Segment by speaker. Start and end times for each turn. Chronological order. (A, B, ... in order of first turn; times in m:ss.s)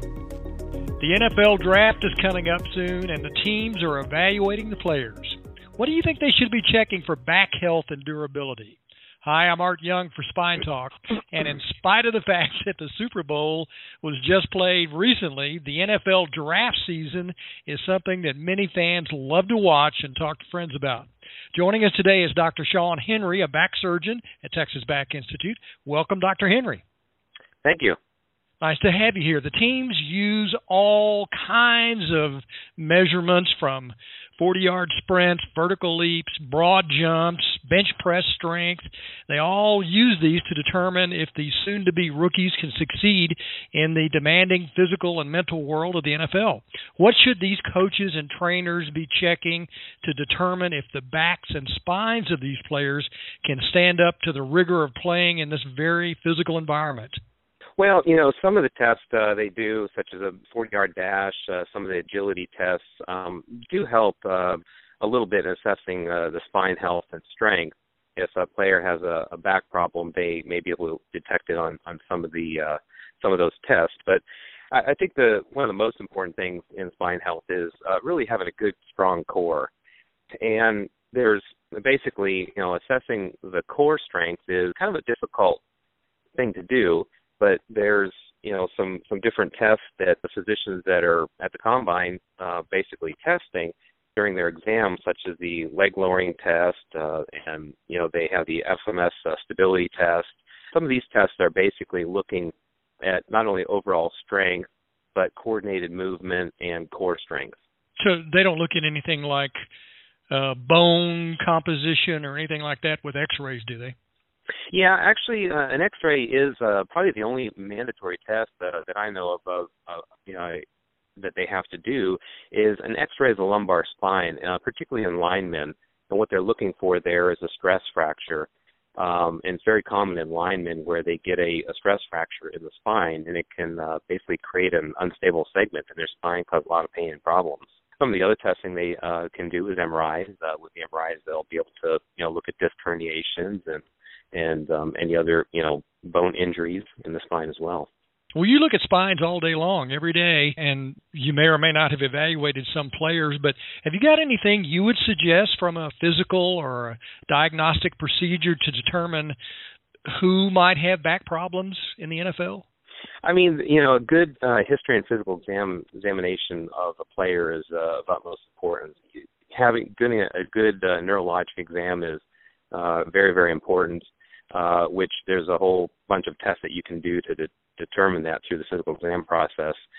0:01.0-0:26.8 A
0:27.6-0:28.0 B
0:28.6-0:57.1 A
0:57.8-1:19.7 B
1:20.4-1:25.6 B
1:26.4-1:47.5 B
1:48.0-1:49.5 A
1:50.3-1:53.9 A
1:54.7-2:00.6 B
2:01.2-2:27.9 B
2:28.4-2:39.3 A
2:40.1-2:42.6 A
2:43.2-2:59.8 B